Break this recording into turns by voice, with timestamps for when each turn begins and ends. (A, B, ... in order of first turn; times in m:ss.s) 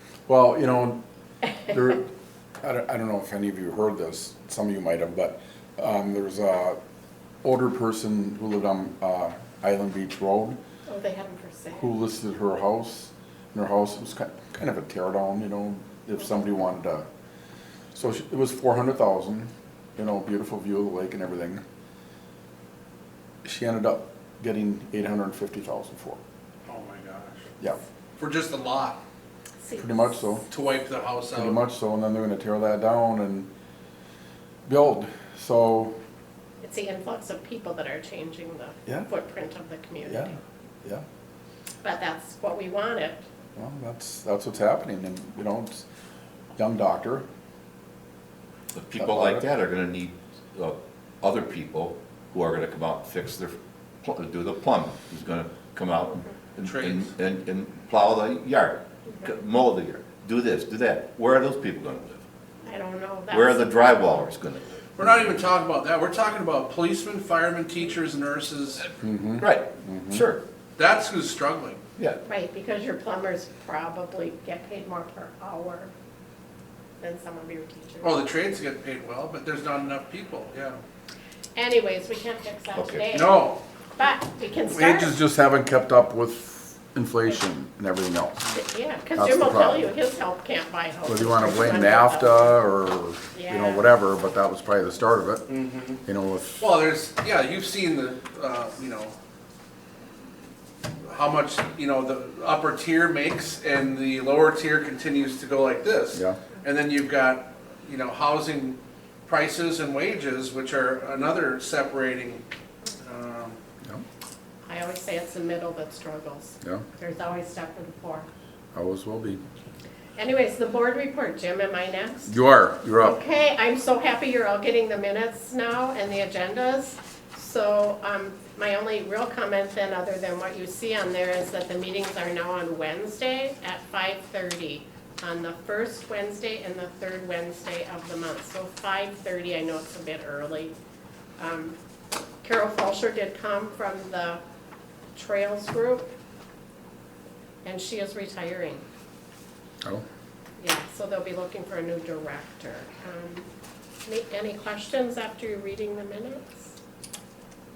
0:00.3-0:01.0 A
0:01.6-0:02.1 A
0:02.6-0:06.8 A
0:07.4-0:10.6 A
0:10.9-0:11.9 B
0:11.8-0:17.0 A
0:17.9-0:21.6 A
0:23.4-0:26.2 A
0:26.7-0:27.5 C
0:28.2-0:29.0 C
0:29.6-0:30.2 B
0:29.8-0:30.5 A
0:30.5-0:31.6 C
0:31.3-0:33.5 A
0:34.7-0:35.9 A
0:36.6-0:40.4 B
0:40.0-0:40.3 A
0:41.8-0:43.2 B
0:43.6-0:45.8 A
0:46.6-0:47.2 A
0:48.7-1:02.2 D
0:49.0-0:49.4 A
0:56.6-0:57.1 C
1:02.6-1:04.0 B
1:03.3-1:05.4 D
1:05.0-1:08.8 C
1:09.0-1:10.2 A
1:09.4-1:10.4 D
1:10.8-1:11.8 C
1:12.2-1:15.9 B
1:17.0-1:18.3 B
1:18.0-1:20.8 C
1:21.5-1:25.1 B
1:22.8-1:23.0 D
1:23.1-1:23.6 C
1:24.7-1:28.6 A
1:28.5-1:32.6 B
1:29.2-1:29.9 A
1:31.0-1:35.5 A
1:33.3-1:33.9 B
1:35.5-1:36.0 C
1:36.0-1:36.6 A
1:36.6-1:39.1 C
1:41.0-1:52.4 C
1:46.1-1:46.4 A
1:53.0-1:53.6 C
1:54.7-1:58.3 B
1:58.7-1:59.4 A
2:00.2-2:02.3 B
2:02.3-2:03.2 A
2:03.0-2:20.7 B
2:21.4-2:21.8 B
2:22.4-2:24.4 B
2:25.1-2:26.1 B
2:27.6-2:28.8 B
2:30.6-2:33.5 B
2:34.0-2:36.7 B